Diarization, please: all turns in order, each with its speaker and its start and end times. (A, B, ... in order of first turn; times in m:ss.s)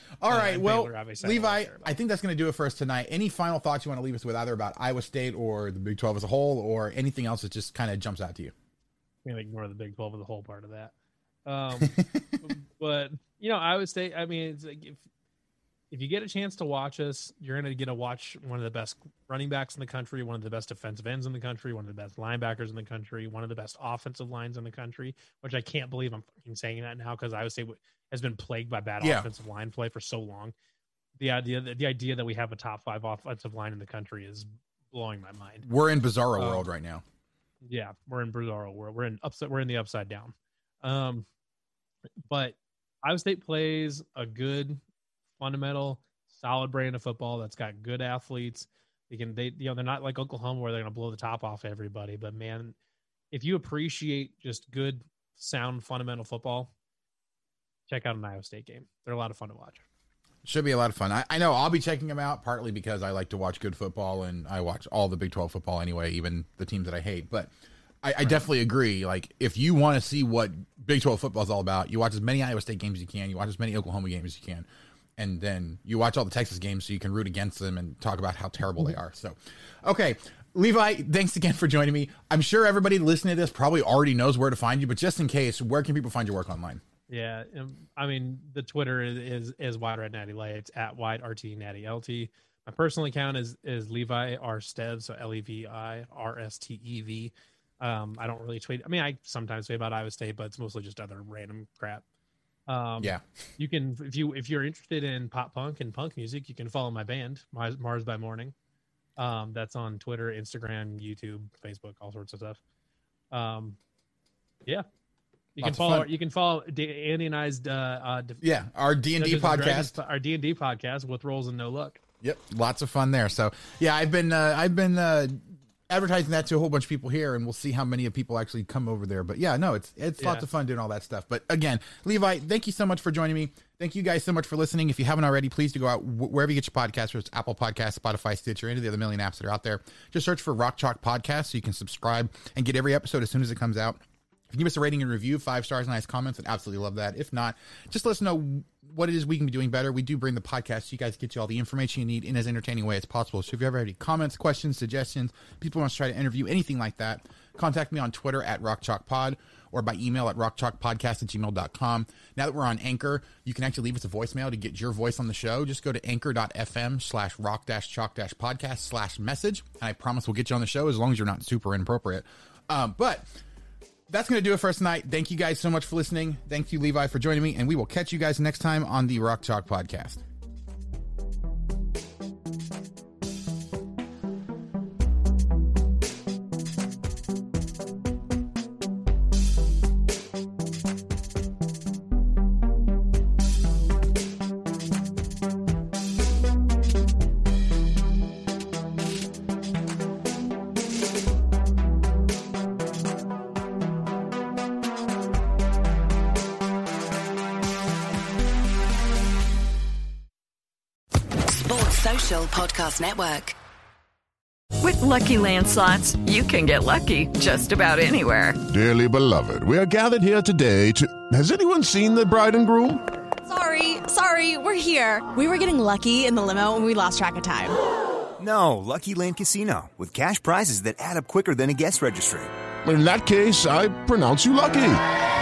0:00.2-0:08.5 A
0:00.3-0:02.0 B
0:09.2-0:10.9 B
0:11.4-0:15.0 B
0:11.8-0:12.2 A
0:15.9-0:30.5 B
0:29.0-0:29.3 A
0:31.2-0:35.6 B
0:35.6-0:37.0 A
0:36.4-0:36.6 B
0:37.6-0:41.2 B
0:42.3-0:44.8 B
0:45.4-0:52.7 B
0:53.3-0:56.7 B
0:57.9-0:59.8 B
1:00.4-1:07.5 A
1:08.0-1:14.6 A
1:15.2-1:26.8 A
1:27.1-1:42.0 B
1:42.7-1:48.5 B
1:49.2-1:52.6 B
1:53.3-1:53.8 B
1:55.5-1:58.4 B
1:55.6-1:56.1 A
1:58.4-2:00.0 A
1:59.2-2:02.0 B
2:02.2-2:53.3 A
2:10.2-2:10.4 B
2:54.1-3:00.2 A
3:31.5-3:33.5 C
3:34.8-3:38.6 D
3:38.7-3:43.0 E
3:43.4-3:47.7 F
3:48.4-3:52.5 G
3:52.8-3:55.0 E